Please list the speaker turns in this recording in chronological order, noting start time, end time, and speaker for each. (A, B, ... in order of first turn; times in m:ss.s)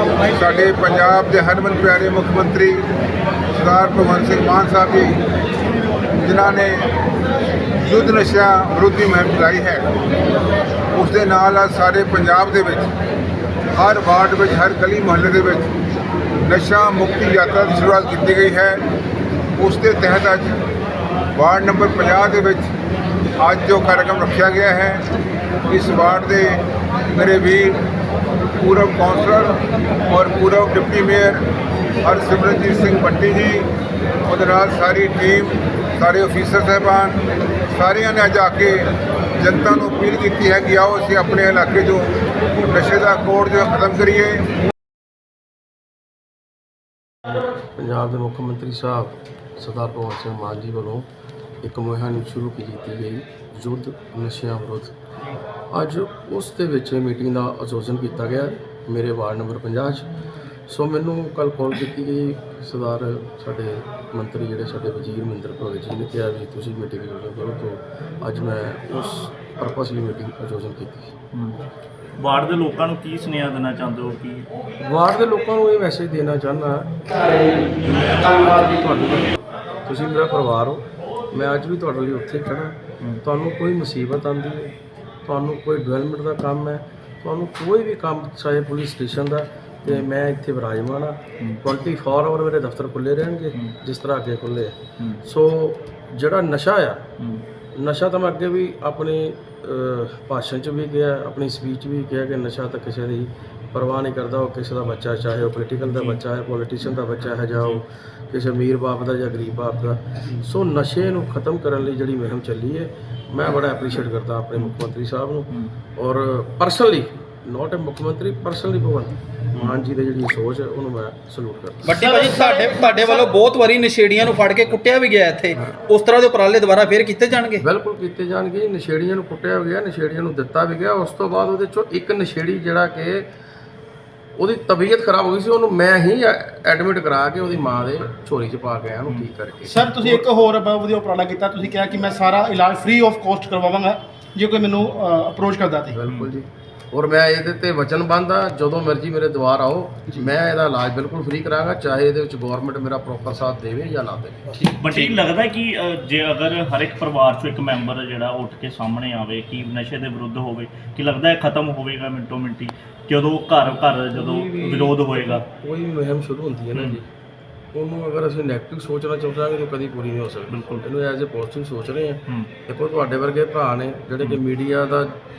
0:00.2-0:02.8 A
0:03.5-0:05.2 A
0:06.2-0:06.8 A
0:07.8-0:09.8 A
0:10.9-0:12.9 A
0:13.7-0:15.7 A
0:16.4-0:18.8 A
0:19.6-0:20.6 A
0:21.3-0:22.7 A
0:23.4-0:25.0 A
0:25.7-0:27.8 A
0:28.6-0:29.6 A
0:30.1-0:31.4 A
0:32.0-0:33.7 A
0:34.3-0:37.2 A
0:37.7-0:38.9 A
0:39.4-0:44.4 A
0:47.8-0:51.1 B
0:51.6-0:54.9 B
0:55.7-1:00.1 B
1:00.7-1:11.1 B
1:11.3-1:11.6 C
1:12.2-1:14.5 C
1:14.8-1:17.0 B
1:17.6-1:24.7 B
1:25.2-1:37.0 B
1:37.2-1:37.4 C
1:37.7-2:02.0 B
1:45.9-1:46.2 C
2:01.8-2:07.6 D
2:01.9-2:03.3 E
2:05.5-2:05.8 B
2:07.6-2:13.3 B
2:14.4-2:20.2 B
2:19.6-2:26.0 E
2:25.9-2:34.6 B
2:34.7-2:45.4 C
2:43.7-2:47.1 B
2:47.7-2:55.2 B
2:50.5-2:50.8 C